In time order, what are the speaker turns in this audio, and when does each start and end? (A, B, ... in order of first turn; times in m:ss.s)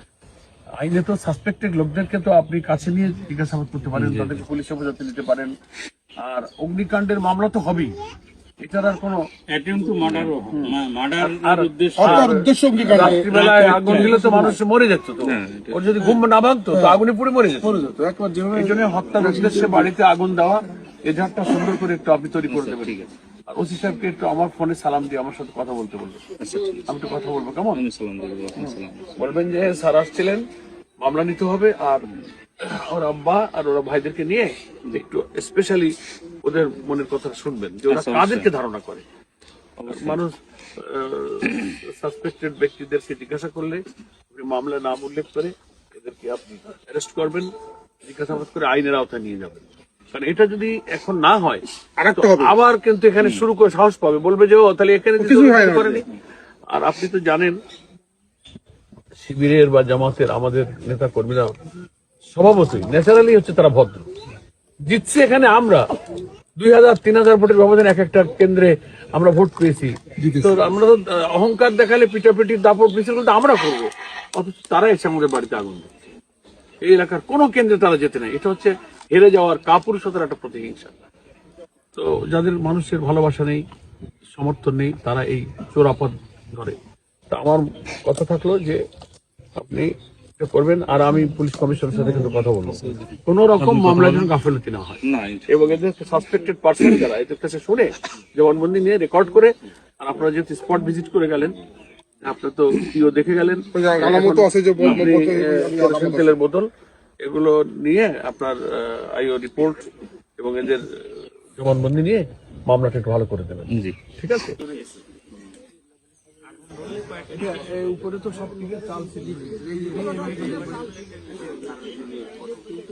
0:00.8-0:05.5 A
0:03.9-0:04.4 B
0:06.2-0:08.0 A
0:08.6-0:09.2 A
0:09.5-0:12.3 B
0:10.5-0:10.8 C
0:11.2-0:17.8 A
0:12.0-0:14.6 C
0:13.0-0:14.2 B
0:15.2-0:16.2 B
0:16.7-0:17.0 C
0:17.6-0:19.9 C
0:18.5-0:23.0 A
0:22.5-0:23.1 B
0:23.5-0:26.2 A
0:26.4-0:26.9 B
0:26.9-0:27.8 A
0:27.7-0:29.2 B
0:28.6-0:30.5 A
0:31.0-0:32.0 A
0:32.6-0:35.9 A
0:36.4-0:39.0 A
0:37.9-0:38.5 B
0:39.8-0:40.2 B
0:39.9-0:47.5 A
0:41.4-0:41.8 B
0:48.0-0:56.0 A
0:52.0-0:52.6 C
0:53.2-0:53.4 B
0:55.2-0:56.0 C
0:56.7-0:57.6 A
0:59.2-1:01.5 A
1:02.3-1:04.1 A
1:04.9-1:05.8 A
1:06.6-1:15.9 A
1:10.2-1:10.8 C
1:16.8-1:21.0 A
1:21.9-1:23.6 A
1:24.4-1:26.8 A
1:27.3-1:28.8 A
1:29.6-1:41.6 A
1:32.1-1:34.1 B
1:35.0-1:35.5 B
1:42.2-1:46.7 A
1:43.7-1:46.4 C
1:44.8-1:45.2 B
1:47.2-1:54.6 A
1:53.7-1:54.0 B
1:57.3-2:00.6 A
1:59.5-2:00.0 C